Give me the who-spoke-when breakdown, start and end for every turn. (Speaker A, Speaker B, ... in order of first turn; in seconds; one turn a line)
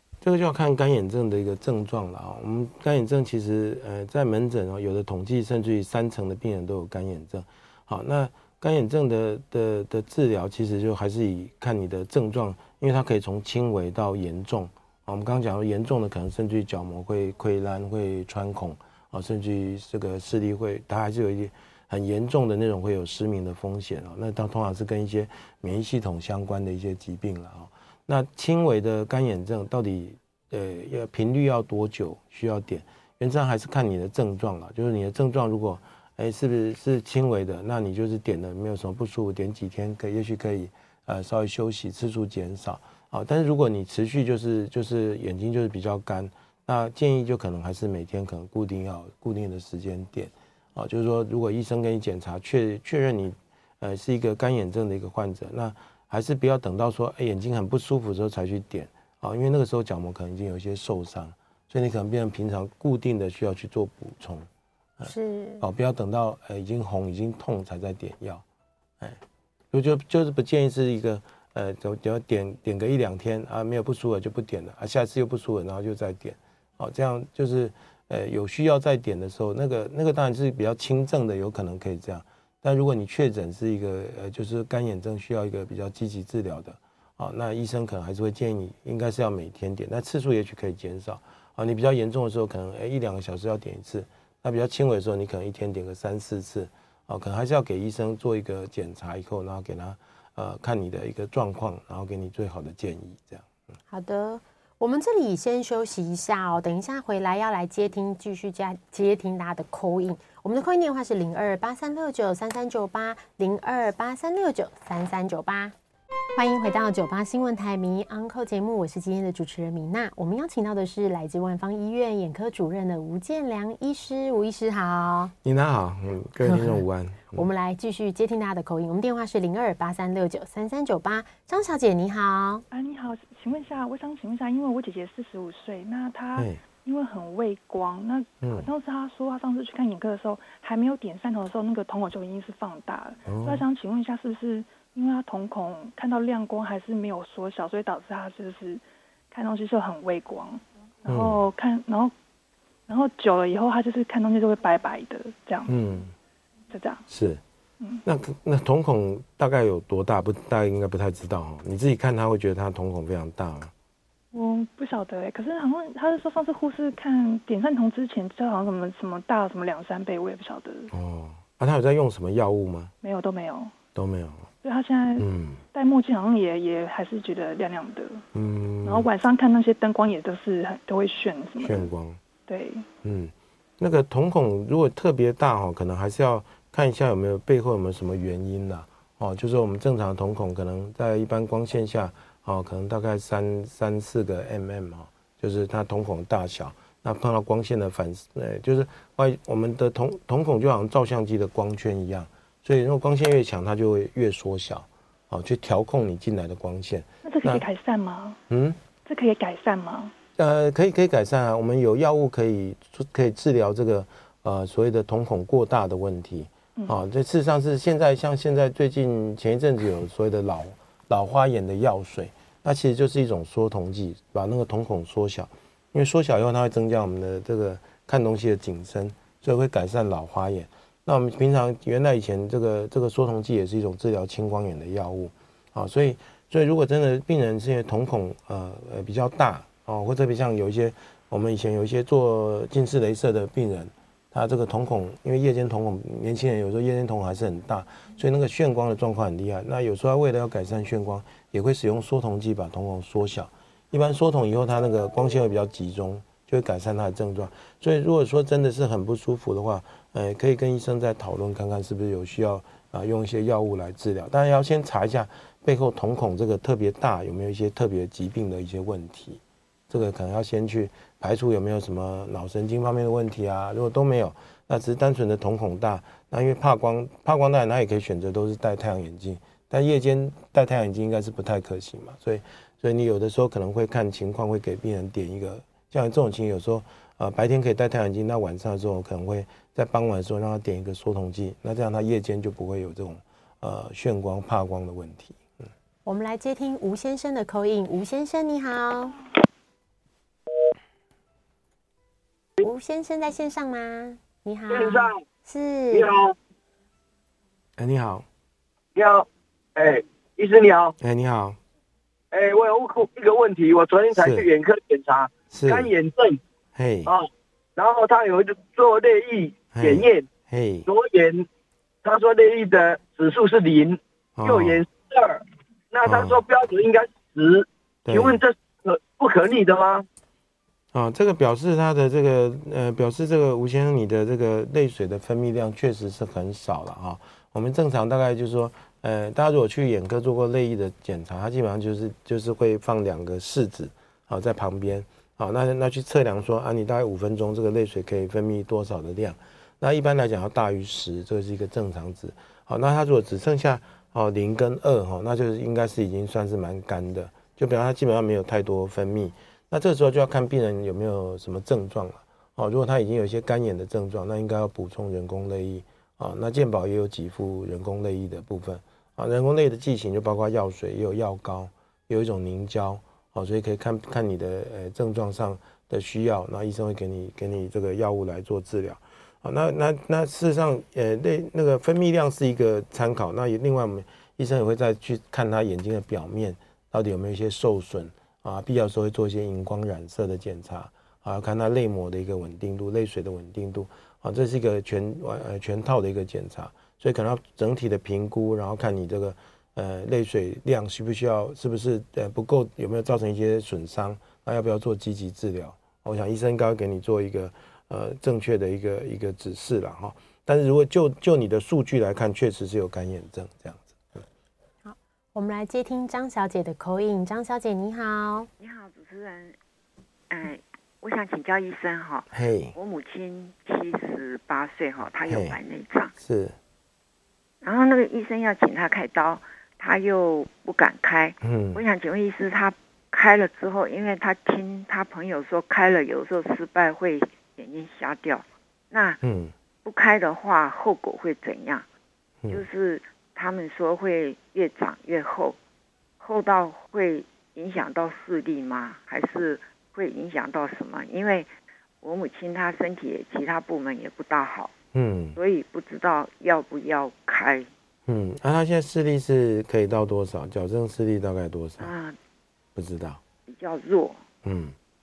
Speaker A: 0.2-64.5
Speaker B: 65.0-65.6
Speaker A: 65.6-68.4
Speaker A: 69.7-103.5
Speaker B: 103.9-115.7
Speaker B: 116.4-125.3
Speaker A: 125.4-127.5
Speaker B: 127.3-132.6
Speaker C: 132.7-152.1
Speaker A: 138.4-138.7
Speaker A: 143.3-143.6
Speaker A: 151.1-151.4
Speaker C: 152.9-155.8
Speaker A: 155.7-156.2
Speaker C: 156.7-157.1
Speaker A: 157.1-157.4
Speaker A: 158.1-163.7
Speaker C: 164.3-170.9
Speaker A: 170.9-172.9
Speaker C: 173.0-173.7
Speaker A: 173.9-174.5
Speaker C: 174.6-178.2
Speaker A: 175.2-175.6
Speaker A: 178.3-179.1
Speaker C: 178.8-181.9
Speaker A: 181.6-182.2
Speaker C: 182.5-182.9
Speaker A: 183.0-207.7
Speaker C: 207.2-208.4
Speaker A: 208.5-208.8
Speaker C: 209.1-210.1
Speaker A: 210.4-295.4
Speaker B: 296.1-299.2
Speaker B: 302.6-306.1
Speaker D: 304.7-305.2
Speaker D: 305.9-306.3
Speaker A: 307.8-308.3
Speaker D: 308.9-310.9
Speaker A: 311.0-311.6
Speaker D: 312.3-316.4
Speaker A: 314.1-314.5
Speaker A: 315.5-315.9
Speaker A: 316.8-317.1
Speaker D: 317.1-320.3
Speaker A: 319.7-320.9
Speaker D: 320.9-321.5
Speaker D: 322.0-330.1
Speaker A: 324.4-324.9
Speaker A: 326.0-326.4
Speaker A: 328.1-328.4
Speaker A: 330.9-414.2
Speaker B: 414.9-418.5
Speaker E: 418.6-419.6
Speaker E: 420.3-426.1
Speaker A: 422.3-422.7
Speaker A: 425.3-425.6
Speaker A: 426.2-426.6
Speaker E: 427.6-439.2
Speaker A: 431.4-431.8
Speaker A: 439.2-439.5
Speaker E: 439.8-441.9
Speaker E: 442.5-445.6
Speaker E: 446.2-451.5
Speaker E: 452.0-454.7
Speaker A: 454.9-455.4
Speaker E: 455.4-457.7
Speaker A: 458.1-461.9
Speaker E: 461.8-462.2
Speaker A: 462.8-463.2
Speaker E: 463.5-464.2
Speaker A: 464.4-464.8